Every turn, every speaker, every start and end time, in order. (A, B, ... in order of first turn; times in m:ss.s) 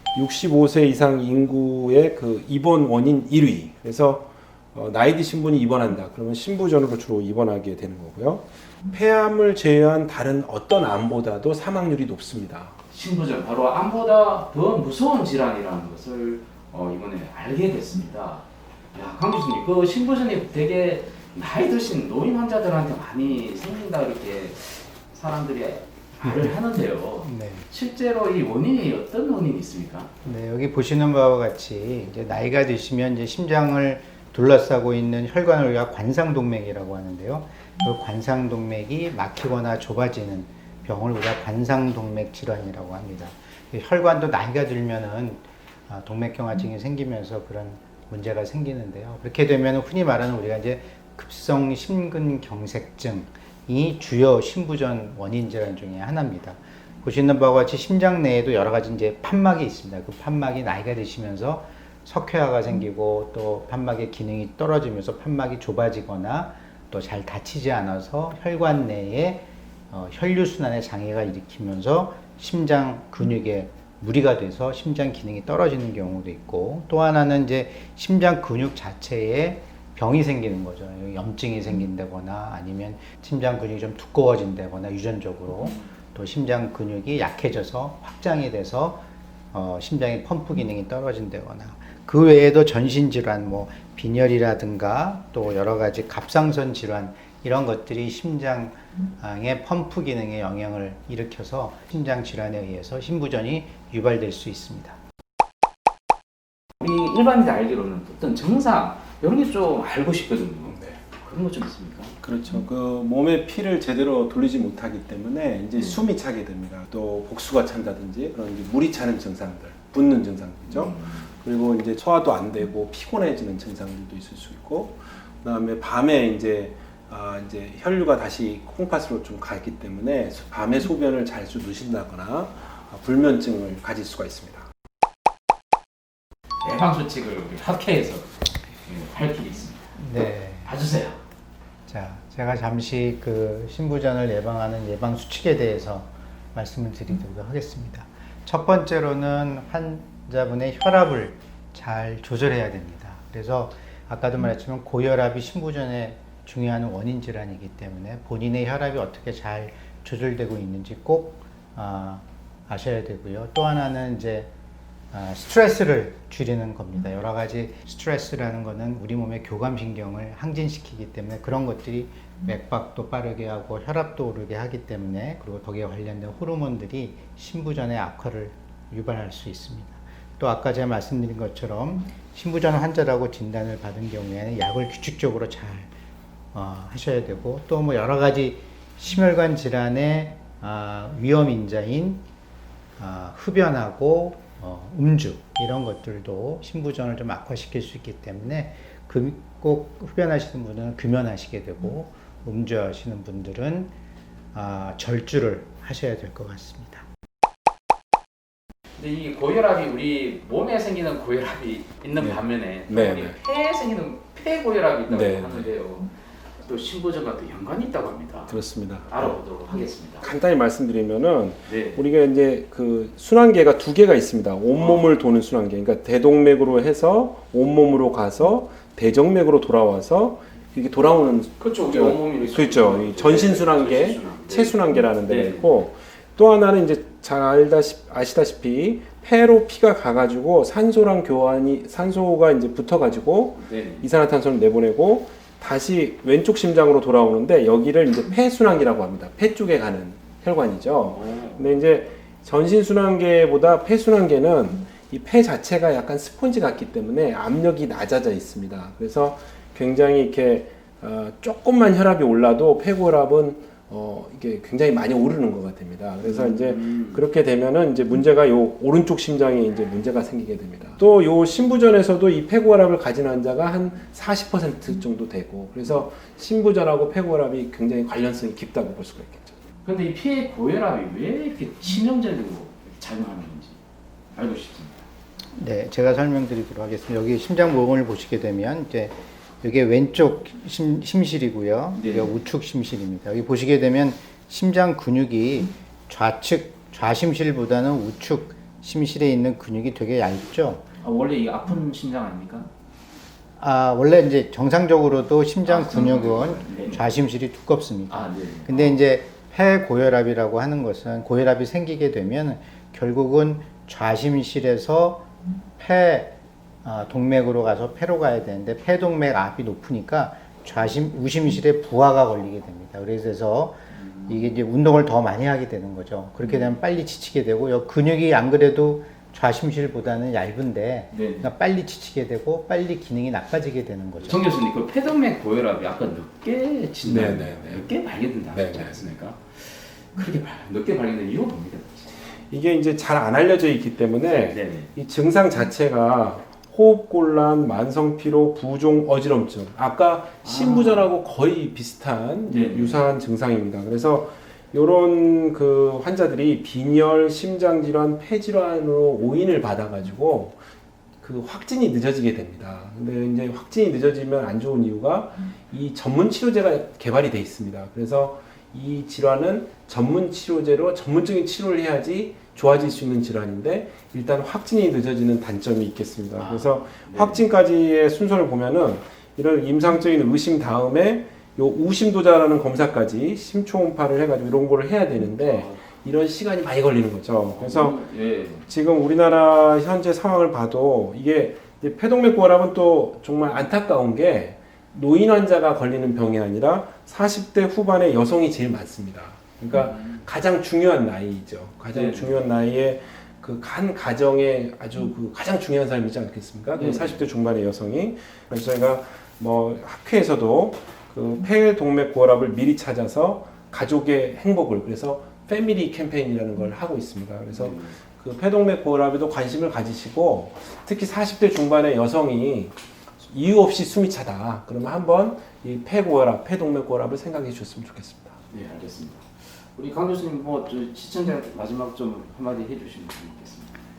0:00.1-0:12.7 A
0:12.9-0:30.1 B
0:26.2-0:26.6 C
0:27.2-0:27.7 C
0:30.2-1:45.0 C
1:46.8-1:52.2 B
1:52.2-2:14.6 A
2:00.7-2:01.3 B
2:16.6-2:19.9 B
2:20.0-2:20.7 C
2:20.6-2:21.2 B
2:21.9-2:44.5 C
2:45.1-3:05.9 C
3:06.5-3:12.2 C
3:13.0-3:23.9 C
3:24.5-3:27.0 C
3:29.0-3:36.1 B
3:32.2-3:33.4 A
3:35.1-3:35.7 A
3:36.6-3:38.6 B
3:38.5-3:39.4 A
3:39.1-3:40.3 B
3:40.2-4:39.5 A
3:41.6-3:42.0 B
3:44.8-3:45.2 B
3:51.6-3:55.8 B
4:03.6-4:04.1 B
4:11.1-4:11.6 B
4:26.2-4:27.2 B
4:39.8-4:43.8 B
4:44.3-4:45.0 B
4:45.6-5:00.8 C
4:51.9-4:52.4 B
5:01.0-5:02.7 B
5:03.6-5:15.2 C
5:05.6-5:07.0 B
5:08.1-5:09.0 B
5:15.8-5:34.5 C
5:23.9-5:24.4 B
5:26.4-5:26.7 B
5:31.1-5:31.5 B
5:34.2-5:42.1 B
5:37.0-5:37.9 A
5:38.5-5:39.0 A
5:42.5-6:00.6 A
5:44.5-5:44.9 B
5:50.4-5:51.1 B
5:52.5-5:53.0 B
6:01.2-6:28.0 A
6:16.4-6:17.4 B
6:25.3-6:25.8 B
6:27.6-6:28.7 B
6:28.6-7:08.4 A
6:39.7-6:40.2 B
6:41.9-6:42.4 B
6:46.7-6:47.2 B
6:57.5-6:58.0 B
7:08.5-7:13.7 B